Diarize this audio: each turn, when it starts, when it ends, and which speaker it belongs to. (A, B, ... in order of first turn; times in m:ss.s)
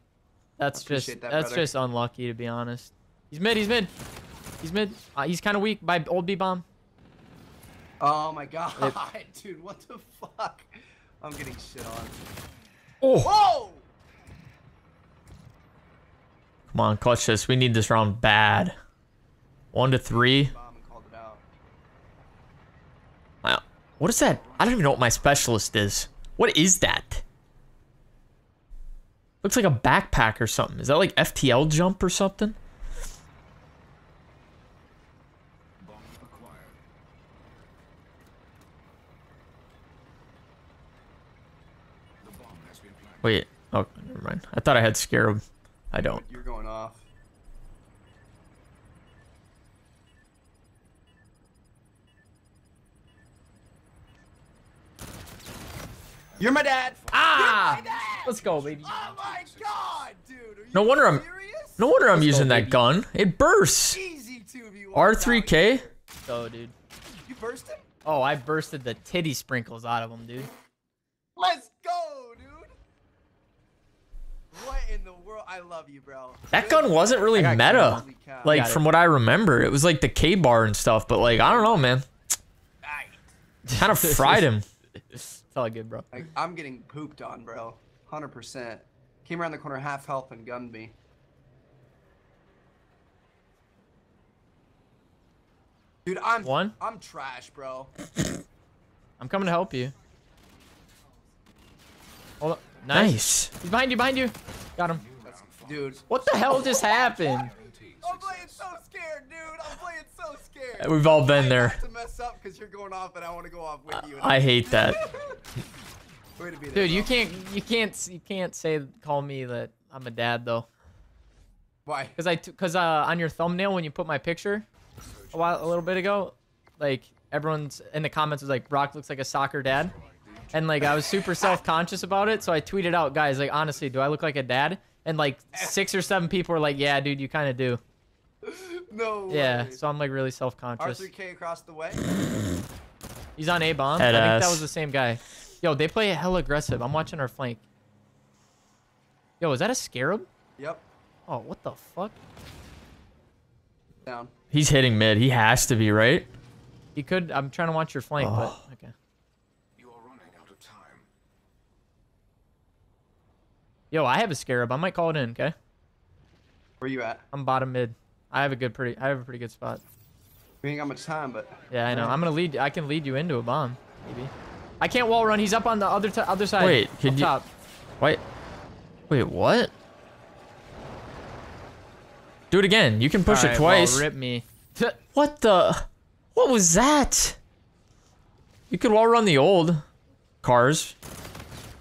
0:00.6-0:03.9 A
0:00.7-0:01.7 B
0:04.6-0:06.6 A
0:08.0-0:10.7 B
0:11.2-0:12.2 B
0:13.0-0:13.3 C
0:13.2-0:13.8 B
0:16.7-0:18.7 C
0:19.7-0:20.5 C
0:20.1-0:21.4 B
0:23.4-0:27.2 C
0:24.3-0:25.2 D
0:29.4-0:32.6 C
0:35.8-0:36.8 D
0:42.2-0:43.3 D
0:43.2-0:46.2 C
0:45.9-0:47.0 B
0:56.4-1:01.8 B
0:57.1-0:58.9 A
0:57.3-0:59.8 D
1:00.7-1:01.2 C
1:01.8-1:04.0 C
1:02.1-1:02.8 A
1:03.9-1:06.0 B
1:04.9-1:05.8 C
1:06.2-1:06.7 A
1:07.2-1:07.9 B
1:08.0-1:10.5 A
1:11.4-1:12.7 B
1:14.5-1:18.6 B
1:16.5-1:22.0 C
1:17.3-1:18.8 A
1:21.3-1:21.9 B
1:22.8-1:23.2 B
1:23.7-1:24.5 A
1:23.7-1:24.6 C
1:25.1-1:26.1 A
1:26.1-1:30.9 B
1:36.0-1:37.9 B
1:36.4-1:36.7 A
1:39.2-1:39.9 A
1:42.4-1:45.0 A
1:42.9-1:43.5 C
1:44.8-1:48.6 D
1:45.2-1:46.0 B
1:46.1-1:47.5 A
1:48.0-1:55.4 B
1:50.8-1:51.8 C
1:54.0-1:55.0 C
1:56.4-1:57.1 B
1:56.7-2:00.6 A
2:01.8-2:02.2 B
2:02.2-2:04.6 A
2:05.0-2:06.0 D
2:05.3-2:09.9 A
2:09.8-2:11.2 D
2:10.5-2:17.8 A
2:18.4-2:19.8 B
2:19.3-2:21.1 A
2:20.8-2:22.0 B
2:23.4-2:27.6 A
2:24.0-2:24.6 C
2:29.4-2:30.3 A
2:30.6-2:30.8 B
2:31.3-2:32.2 A
2:34.0-2:34.3 B
2:34.5-2:36.3 C
2:37.0-2:38.9 A
2:38.2-2:38.5 C
2:39.8-2:41.1 D
2:43.9-2:45.5 A
2:46.8-2:47.2 B
2:47.3-2:49.8 A
2:50.6-2:52.2 B
2:51.7-2:57.5 A
2:56.6-2:57.3 C
2:59.1-2:59.7 C
3:02.5-3:04.0 C
3:03.3-3:05.0 A
3:05.1-3:07.4 C
3:08.7-3:09.8 C
3:10.4-3:10.9 C